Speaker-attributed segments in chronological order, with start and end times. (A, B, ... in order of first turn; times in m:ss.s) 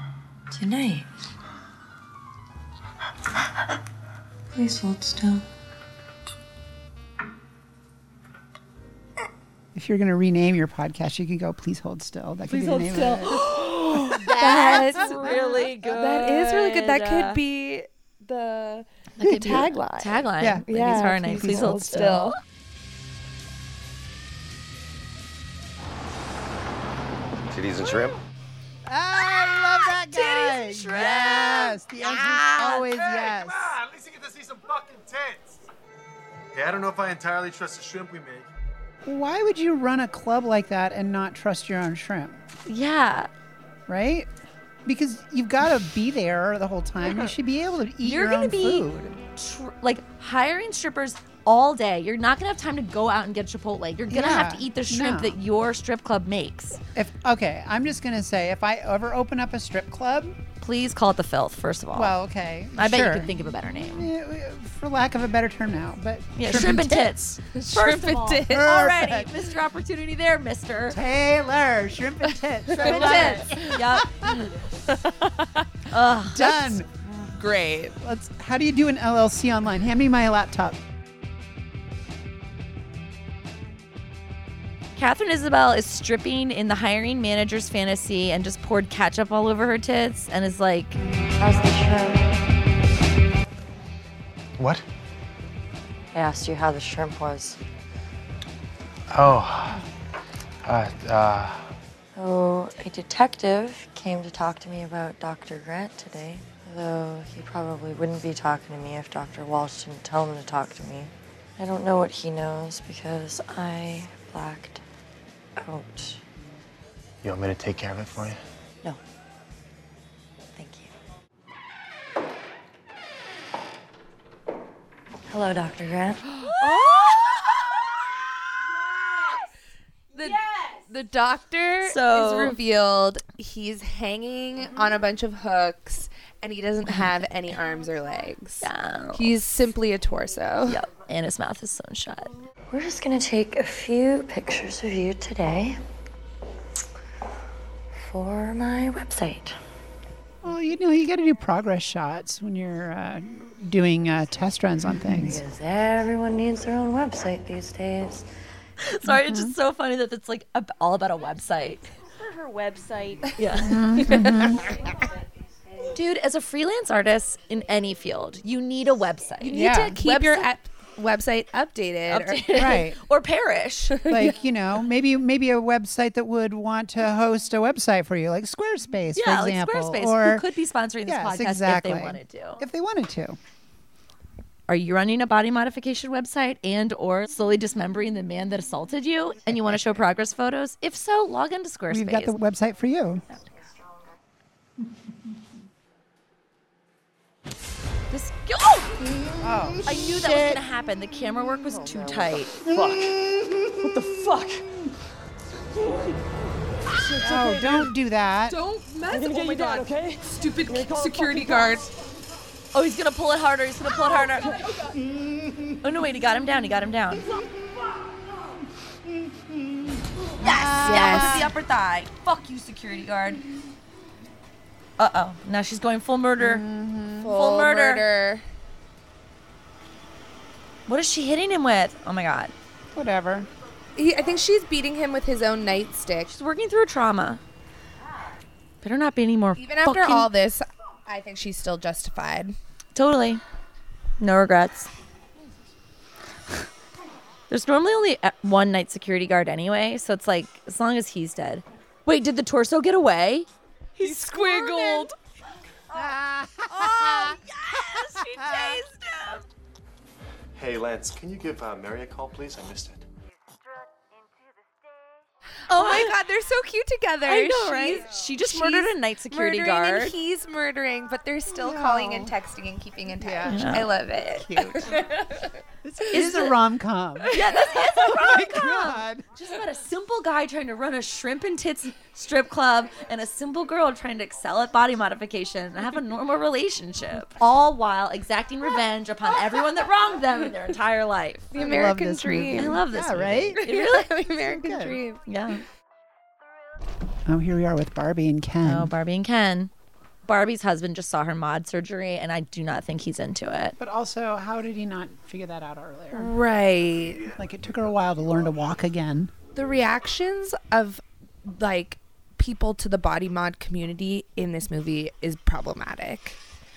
0:00.5-0:01.1 A
0:04.5-0:05.4 A
0:09.7-0:13.4 B
0:12.5-0:17.4 C
0:13.6-0:22.3 D
0:14.1-0:15.3 B
0:19.2-0:19.7 B
0:19.2-0:22.4 C
0:20.4-0:22.3 B
0:27.6-0:28.1 E
0:28.8-0:33.8 B
0:29.2-0:33.0 C
0:33.0-0:35.6 E
0:36.5-0:38.5 E
0:39.0-0:42.4 B
0:42.7-0:43.3 C
0:43.9-0:44.3 B
0:44.8-0:49.2 B
0:48.0-0:56.8 C
0:54.1-0:55.4 B
0:56.9-1:00.4 B
1:00.6-1:02.1 C
1:01.9-1:07.4 B
1:02.8-1:04.1 C
1:06.4-1:11.0 C
1:07.5-1:08.7 D
1:08.4-1:09.3 B
1:10.9-1:14.5 B
1:12.7-1:13.8 D
1:12.8-1:14.6 C
1:15.9-1:16.8 C
1:16.3-1:16.9 B
1:17.1-1:17.9 D
1:18.0-1:20.8 B
1:25.0-1:31.0 C
1:31.4-1:32.2 A
1:36.1-1:37.6 A
1:39.1-1:39.8 E
1:40.6-1:41.7 E
1:42.2-1:54.8 A
1:55.6-1:56.2 A
1:57.2-1:58.4 E
2:00.6-2:00.9 A
2:05.3-2:06.2 A
2:06.3-2:07.7 C
2:06.6-2:07.2 D
2:10.1-2:20.8 D
2:11.8-2:12.6 C
2:16.8-2:17.2 C
2:18.6-2:19.3 C
2:20.6-2:22.3 C
2:22.7-2:25.8 A
2:28.1-2:29.5 A
2:30.4-2:35.4 B
2:35.2-2:38.2 A
2:38.8-2:41.9 C
2:39.0-2:39.5 B
2:43.4-2:44.4 C
2:43.6-2:44.6 B
2:45.9-2:50.3 C
2:49.4-2:52.8 D
2:49.5-2:50.0 B
2:52.1-2:54.2 C
2:52.5-2:53.0 B
2:54.0-3:00.5 B
2:59.1-3:02.6 C
3:01.0-3:03.4 B
3:04.7-3:12.4 C
3:11.9-3:13.2 B
3:18.1-3:19.1 C
3:19.4-3:20.6 B
3:19.8-3:22.6 C
3:22.6-3:23.0 B
3:27.1-3:28.6 B
3:28.6-3:31.8 F
3:30.5-3:31.9 D
3:32.7-3:34.6 C
3:35.8-3:37.2 C
3:40.4-3:41.5 B
3:40.4-3:43.4 C
3:40.8-3:41.5 D
3:45.0-3:46.6 C
3:46.4-3:47.3 B
3:47.2-3:48.4 D
3:47.3-3:48.0 C
3:50.9-3:52.5 C
3:52.9-3:53.5 B
3:54.0-3:56.3 D
3:56.3-3:57.4 C
3:58.8-4:00.3 C
3:59.6-4:02.6 D
4:02.9-4:03.4 C
4:04.2-4:04.9 C
4:07.5-4:13.5 C
4:14.0-4:15.1 D
4:14.0-4:15.1 C
4:15.9-4:17.4 B
4:16.7-4:19.4 C
4:18.2-4:18.8 B
4:20.5-4:23.0 E
4:25.7-4:35.4 D
4:25.7-4:26.1 C
4:27.2-4:30.1 C
4:31.5-4:32.3 B
4:33.2-4:35.0 B
4:33.5-4:33.9 C
4:35.8-4:39.2 B
4:36.1-4:36.5 C
4:37.3-4:51.5 C
4:37.3-4:37.8 D
4:51.5-4:52.8 D
4:51.5-4:53.6 B
4:52.5-4:54.2 C
4:53.6-4:55.2 D
4:54.3-4:55.0 B
4:55.2-4:55.6 C
4:57.3-4:58.9 B
4:58.6-4:59.7 C
5:00.2-5:03.8 C
5:03.8-5:06.3 B
5:06.1-5:07.3 D
5:07.2-5:09.3 B
5:09.5-5:16.4 D